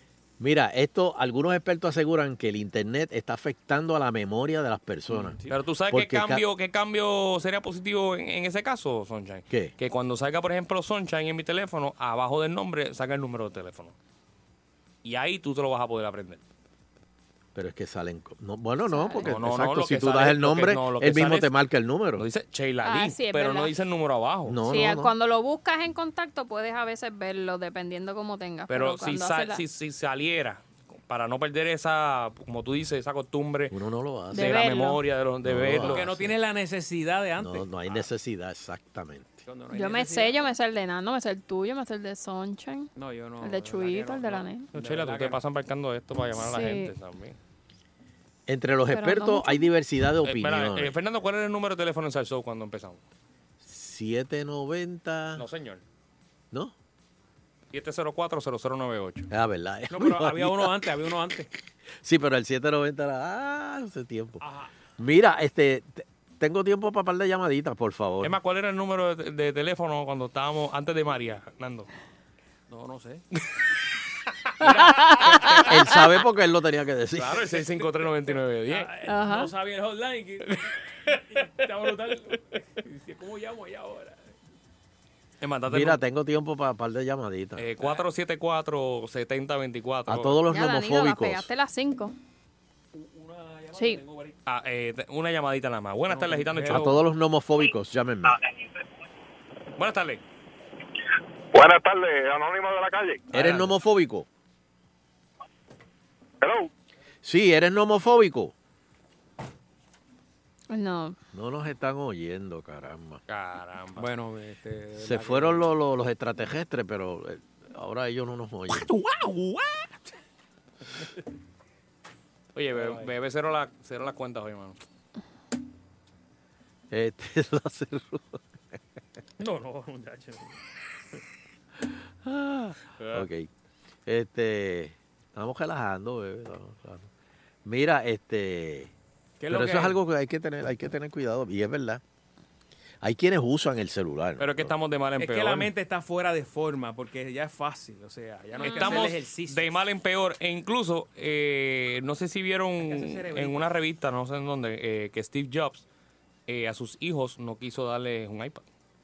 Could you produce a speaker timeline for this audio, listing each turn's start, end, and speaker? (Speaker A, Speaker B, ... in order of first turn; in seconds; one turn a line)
Speaker A: 0.4-5.4
Speaker B: 5.1-5.6
Speaker C: 5.5-13.9
Speaker A: 5.9-6.5
Speaker C: 15.0-16.4
Speaker A: 17.6-22.2
Speaker D: 18.9-19.3
Speaker C: 19.3-21.5
Speaker C: 22.2-24.6
Speaker D: 22.8-23.7
Speaker A: 24.5-25.1
Speaker D: 24.6-29.6
Speaker C: 28.7-33.8
Speaker A: 33.7-34.8
Speaker D: 34.3-35.0
Speaker C: 34.3-36.3
Speaker A: 35.4-36.1
Speaker B: 35.9-38.1
Speaker A: 37.4-39.4
Speaker B: 39.5-40.5
Speaker D: 39.7-42.9
Speaker B: 43.0-45.4
Speaker D: 43.4-44.7
Speaker C: 44.7-47.4
Speaker D: 46.4-46.9
Speaker A: 48.5-51.0
Speaker D: 48.9-49.7
Speaker C: 50.2-53.0
Speaker A: 53.6-55.5
Speaker C: 55.4-55.8
Speaker C: 57.7-59.3
Speaker A: 59.3-60.8
Speaker B: 59.9-61.5
Speaker A: 62.0-64.4
Speaker B: 64.4-64.7
Speaker A: 65.0-68.4
Speaker C: 68.2-71.9
Speaker B: 72.7-73.2
Speaker B: 74.6-76.0
Speaker D: 74.9-76.0
Speaker A: 75.7-77.4
Speaker C: 77.2-78.9
Speaker B: 77.5-80.6
Speaker D: 79.0-79.5
Speaker B: 81.3-84.3
Speaker C: 85.4-86.0
Speaker A: 85.7-87.7
Speaker C: 87.6-90.4
Speaker B: 87.8-88.1
Speaker A: 90.1-91.5
Speaker D: 90.5-92.1
Speaker B: 93.0-94.4
Speaker D: 93.7-94.0
Speaker C: 94.5-97.0
Speaker B: 96.1-97.0
Speaker A: 96.7-98.4
Speaker C: 99.8-100.2
Speaker E: 101.5-103.3
Speaker A: 103.3-104.3
Speaker B: 103.4-103.7
Speaker E: 106.4-106.7
Speaker A: 107.2-108.5
Speaker D: 110.7-111.2
Speaker A: 111.3-113.2
Speaker C: 113.3-114.1
Speaker B: 114.0-115.7
Speaker A: 115.0-118.9
Speaker C: 119.0-119.4
Speaker B: 119.1-119.5
Speaker C: 122.5-124.8
Speaker B: 122.7-123.1
Speaker A: 126.9-128.8
Speaker B: 129.4-130.6
Speaker A: 132.2-133.5
Speaker C: 133.0-133.3
Speaker A: 134.1-137.1
Speaker A: 137.7-138.9
Speaker B: 139.4-140.0
Speaker A: 139.5-142.0
Speaker A: 143.0-144.7
Speaker C: 144.4-145.7
Speaker B: 145.2-149.9
Speaker D: 148.5-149.1
Speaker C: 148.7-155.8
Speaker B: 152.8-153.7
Speaker C: 156.5-158.7